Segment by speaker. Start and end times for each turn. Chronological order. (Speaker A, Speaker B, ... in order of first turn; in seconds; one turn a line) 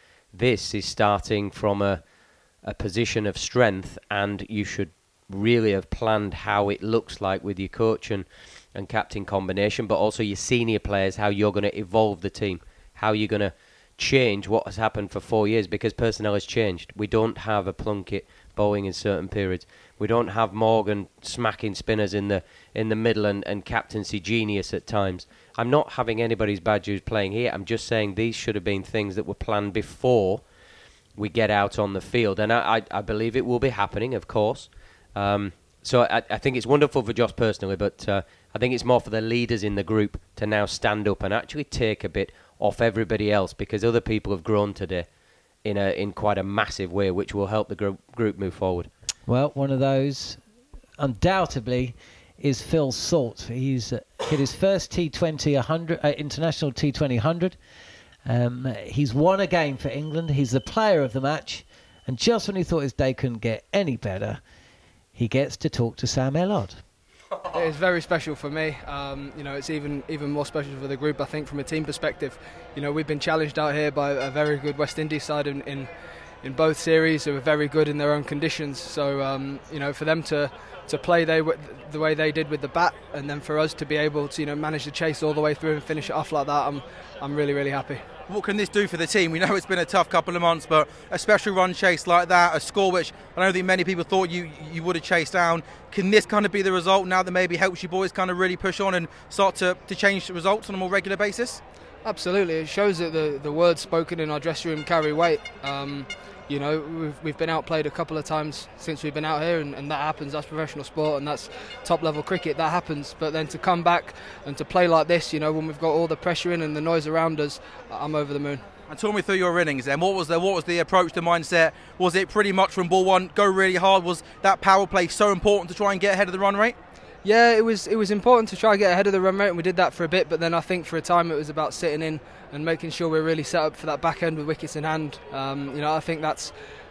Speaker A: 0.3-30.5
Speaker A: 31.1-45.1
Speaker A: 45.6-48.9
Speaker B: 49.3-50.4
Speaker B: 51.0-57.6
Speaker B: 58.3-64.4
Speaker B: 65.2-66.8
Speaker C: 67.5-88.1
Speaker D: 88.3-101.6
Speaker C: 102.0-118.7
Speaker D: 118.9-126.8
Speaker C: 127.2-136.6